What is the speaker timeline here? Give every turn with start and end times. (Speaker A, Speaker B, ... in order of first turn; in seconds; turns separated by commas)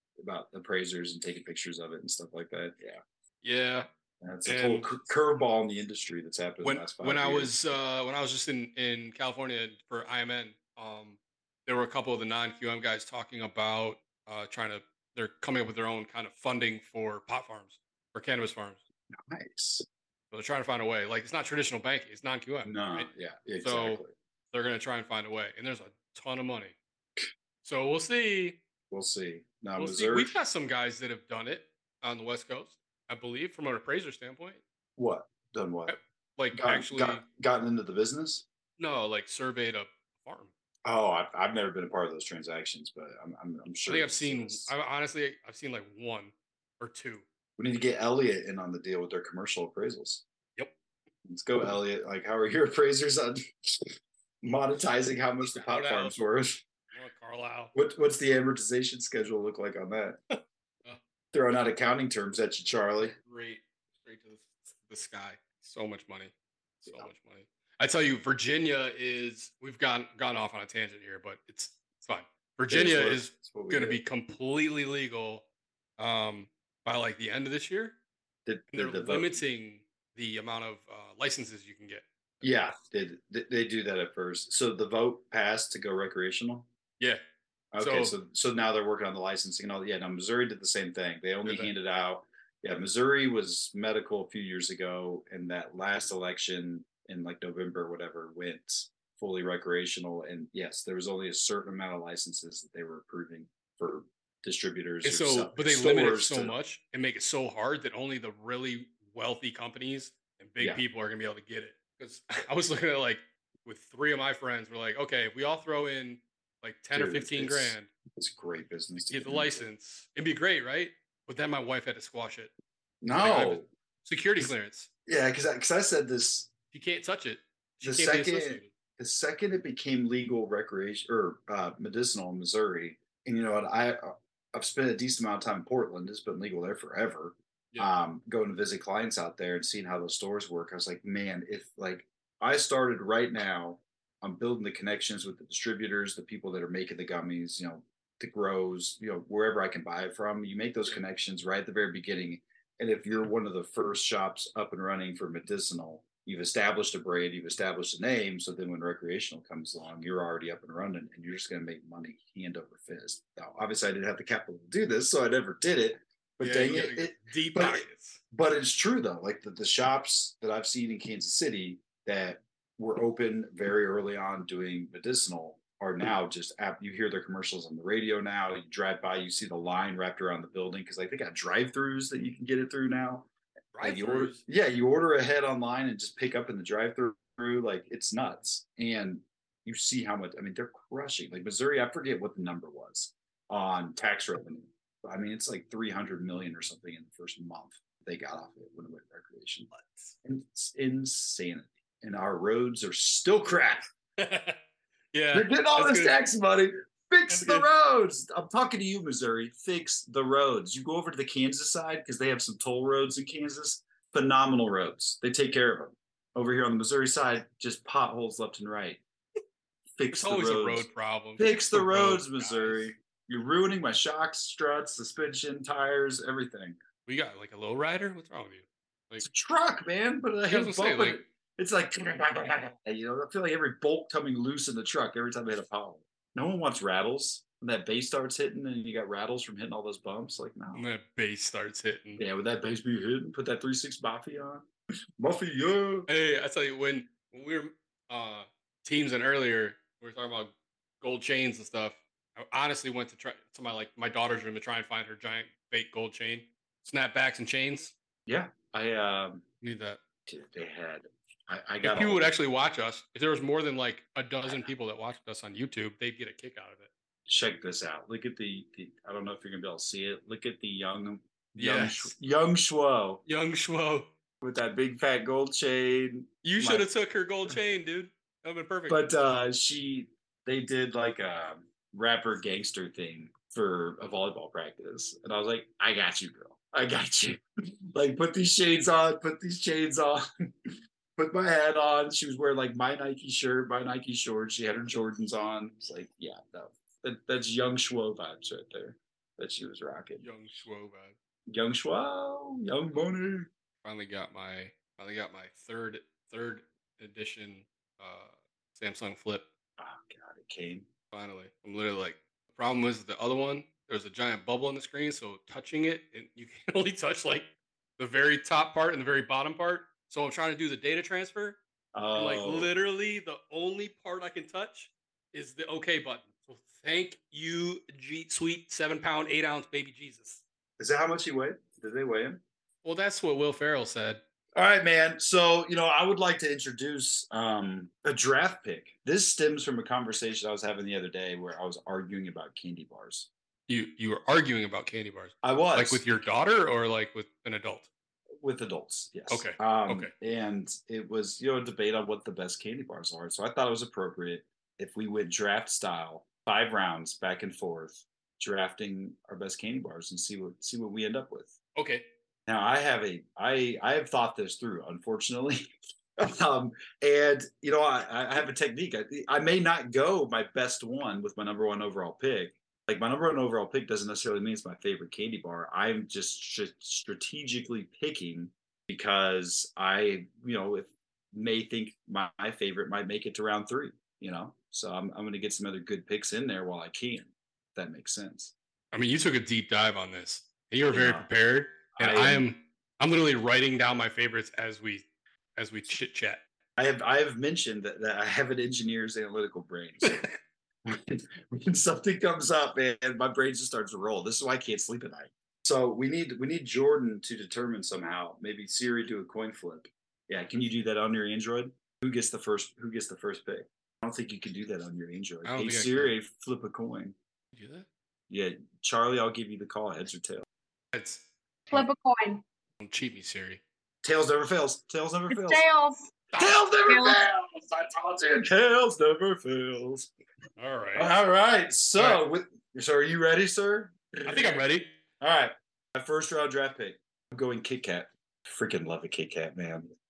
Speaker A: 0.2-3.0, Speaker B: 3.4-3.9, Speaker A: 4.2-7.6, Speaker B: 4.5-4.9, Speaker B: 6.6-18.8, Speaker A: 19.1-19.9, Speaker B: 20.3-26.8, Speaker A: 22.6-24.1, Speaker B: 27.6-28.6, Speaker A: 28.9-30.4, Speaker B: 29.8-34.6, Speaker A: 35.0-36.0, Speaker B: 35.9-37.2, Speaker A: 36.5-38.4, Speaker B: 38.8-40.5, Speaker A: 40.9-44.7, Speaker B: 43.9-47.2, Speaker A: 47.6-50.2, Speaker A: 51.2-53.8, Speaker A: 54.4-56.6, Speaker B: 55.4-56.2, Speaker B: 56.9-57.7, Speaker A: 57.7-60.2, Speaker B: 60.4-61.0, Speaker A: 61.3-63.1, Speaker B: 63.0-75.5, Speaker A: 66.8-67.1, Speaker A: 72.7-74.0, Speaker B: 76.0-78.0, Speaker A: 78.5-79.4, Speaker B: 78.7-82.8, Speaker A: 82.4-86.7, Speaker A: 87.7-106.5, Speaker B: 87.8-88.1, Speaker B: 91.4-91.7, Speaker B: 105.0-117.9, Speaker A: 116.9-119.7, Speaker B: 119.1-122.5, Speaker A: 123.0-123.7, Speaker B: 123.1-124.9, Speaker A: 125.1-126.5, Speaker B: 126.7-128.7, Speaker A: 127.8-183.3, Speaker B: 166.4-168.2, Speaker B: 183.7-184.4, Speaker A: 183.8-199.7, Speaker B: 199.7-200.1, Speaker A: 200.2-203.8, Speaker B: 204.2-204.6, Speaker B: 205.1-206.2, Speaker A: 205.3-219.0, Speaker B: 207.3-207.7, Speaker A: 220.0-220.9, Speaker B: 220.1-222.9, Speaker A: 221.4-226.8, Speaker B: 227.1-229.2, Speaker A: 229.2-240.8, Speaker B: 230.5-231.2, Speaker B: 240.7-242.2, Speaker A: 242.2-244.7, Speaker A: 245.2-246.1, Speaker B: 246.1-257.9, Speaker A: 258.3-259.4, Speaker B: 259.6-260.0, Speaker A: 260.2-262.3, Speaker B: 261.8-266.9, Speaker A: 264.4-264.7, Speaker A: 267.3-273.2, Speaker B: 271.6-272.1, Speaker B: 273.2-274.1, Speaker A: 274.4-276.9, Speaker B: 276.4-279.0, Speaker A: 278.9-287.4, Speaker A: 287.9-290.2, Speaker A: 291.2-300.2, Speaker B: 300.2-301.1, Speaker A: 301.5-303.5, Speaker B: 303.8-309.4, Speaker A: 309.8-310.9, Speaker B: 311.1-321.6, Speaker A: 321.9-322.7, Speaker B: 322.1-330.4, Speaker A: 330.8-332.4, Speaker B: 332.8-334.2, Speaker A: 334.6-343.3, Speaker B: 343.7-347.9, Speaker A: 345.4-346.0, Speaker A: 348.4-361.6, Speaker B: 349.3-350.1, Speaker B: 361.7-362.1, Speaker A: 362.5-365.7, Speaker A: 366.2-388.5, Speaker B: 388.9-395.0, Speaker A: 390.9-391.3, Speaker A: 391.9-392.4, Speaker B: 395.6-396.4, Speaker A: 396.8-400.2, Speaker A: 400.9-417.1, Speaker B: 415.4-416.1, Speaker B: 417.5-417.9, Speaker A: 418.3-420.4, Speaker B: 420.9-421.9, Speaker C: 421.7-422.4, Speaker B: 422.8-423.6, Speaker A: 424.0-425.6, Speaker C: 425.3-426.3, Speaker B: 426.3-426.6, Speaker A: 426.4-430.1, Speaker C: 426.9-427.2, Speaker B: 430.6-431.1, Speaker A: 430.9-434.5, Speaker B: 431.9-432.2, Speaker B: 434.2-435.0, Speaker A: 435.2-439.9